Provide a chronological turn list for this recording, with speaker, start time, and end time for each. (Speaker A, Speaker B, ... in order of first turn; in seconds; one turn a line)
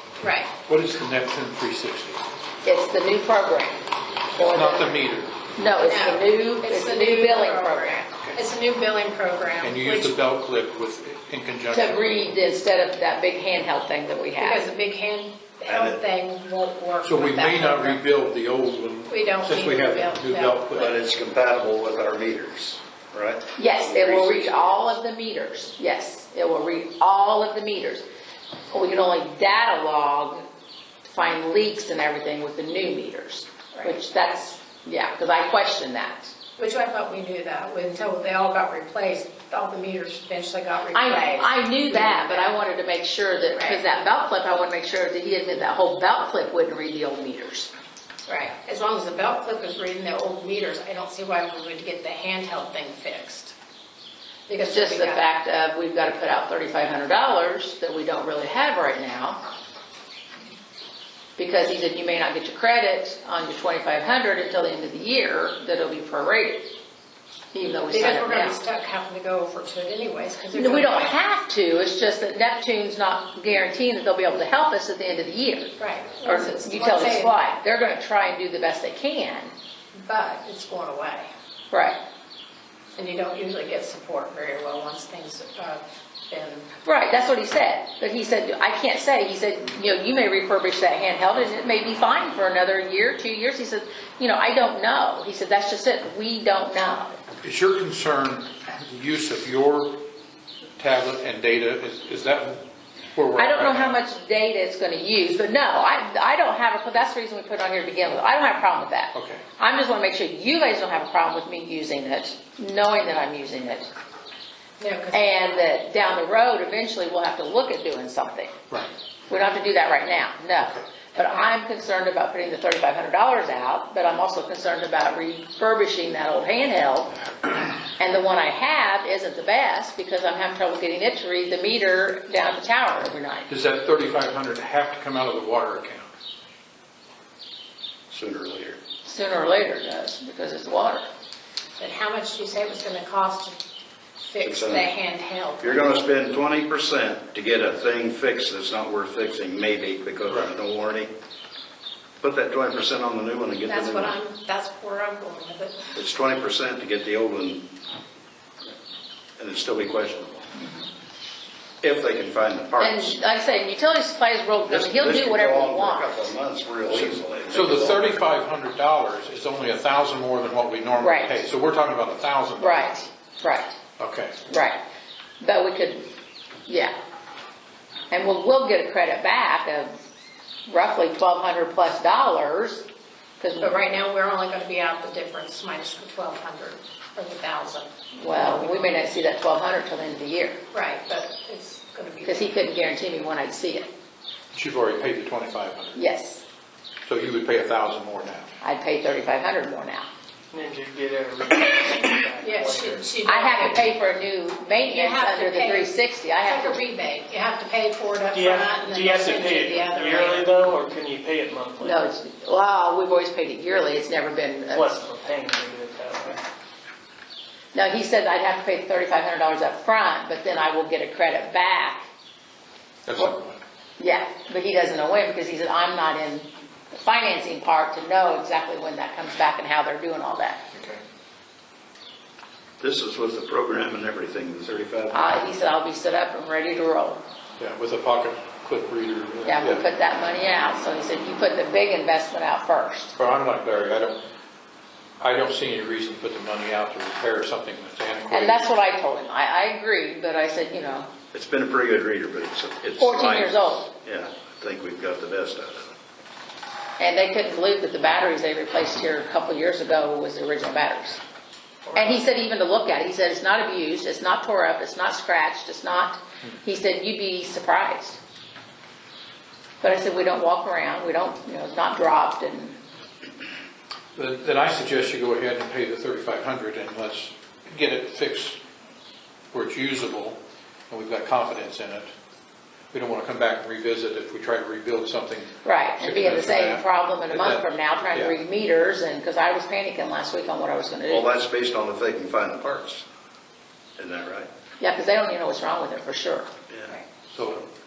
Speaker A: 0.2-0.5
Speaker B: 0.7-2.2
Speaker C: 2.6-3.8
Speaker C: 4.3-5.0
Speaker B: 4.4-5.3
Speaker C: 5.5-8.1
Speaker A: 5.8-10.2
Speaker B: 9.6-12.0
Speaker C: 11.7-14.6
Speaker A: 14.4-18.0
Speaker D: 15.7-16.0
Speaker B: 17.0-20.9
Speaker A: 19.1-20.8
Speaker D: 20.7-24.9
Speaker C: 23.6-28.0
Speaker C: 28.7-30.4
Speaker C: 31.1-36.3
Speaker A: 36.6-42.5
Speaker C: 40.9-47.7
Speaker A: 43.5-43.8
Speaker A: 48.3-53.5
Speaker A: 54.5-55.2
Speaker C: 54.6-59.4
Speaker C: 61.4-66.7
Speaker C: 67.5-68.6
Speaker A: 67.9-71.2
Speaker C: 70.5-75.7
Speaker A: 75.8-77.3
Speaker C: 76.2-79.5
Speaker A: 79.9-81.3
Speaker C: 81.7-82.0
Speaker A: 83.0-86.7
Speaker C: 86.8-97.2
Speaker B: 97.4-100.0
Speaker B: 100.8-102.6
Speaker B: 103.1-103.9
Speaker C: 103.3-113.9
Speaker B: 109.1-109.4
Speaker A: 114.8-115.6
Speaker C: 115.1-118.5
Speaker C: 119.3-127.2
Speaker C: 128.0-133.5
Speaker B: 133.5-136.1
Speaker D: 138.1-138.8
Speaker C: 139.0-141.1
Speaker A: 141.8-143.6
Speaker A: 144.2-146.0
Speaker D: 144.4-144.9
Speaker D: 145.6-151.1
Speaker D: 152.2-154.2
Speaker A: 153.7-155.9
Speaker D: 155.9-157.7
Speaker D: 159.4-160.5
Speaker D: 161.8-163.2
Speaker C: 162.8-166.3
Speaker D: 164.6-168.0
Speaker B: 167.5-172.6
Speaker C: 171.0-171.4
Speaker C: 172.6-173.8
Speaker B: 174.0-174.3
Speaker C: 174.5-174.8
Speaker C: 175.4-176.0
Speaker C: 176.7-176.9
Speaker C: 178.1-180.0
Speaker C: 180.7-182.8
Speaker C: 183.4-183.7
Speaker A: 183.6-189.0
Speaker C: 188.1-190.6
Speaker A: 190.7-192.5
Speaker C: 192.2-193.9
Speaker B: 194.5-195.9
Speaker C: 195.9-196.4
Speaker B: 197.1-198.4
Speaker C: 198.6-200.1
Speaker E: 200.5-203.1
Speaker A: 202.4-203.8
Speaker C: 203.2-206.8
Speaker A: 204.7-210.5
Speaker E: 208.3-212.0
Speaker C: 211.8-214.9
Speaker E: 214.7-216.4
Speaker C: 217.7-222.1
Speaker B: 223.1-223.4
Speaker C: 224.0-230.6
Speaker D: 232.8-235.3
Speaker C: 235.1-237.2
Speaker B: 237.6-239.8
Speaker C: 239.4-243.1
Speaker B: 243.2-244.2
Speaker B: 245.2-248.7
Speaker C: 248.3-251.1
Speaker D: 251.3-255.9
Speaker C: 253.0-253.8
Speaker C: 257.0-261.2
Speaker A: 261.9-262.2
Speaker C: 261.9-268.2
Speaker C: 269.8-272.8
Speaker B: 274.1-278.6
Speaker B: 279.5-280.4
Speaker B: 280.9-282.1
Speaker B: 282.9-288.3
Speaker C: 285.6-291.3
Speaker D: 291.1-293.0
Speaker D: 294.0-294.5
Speaker C: 294.8-297.0
Speaker B: 297.3-297.6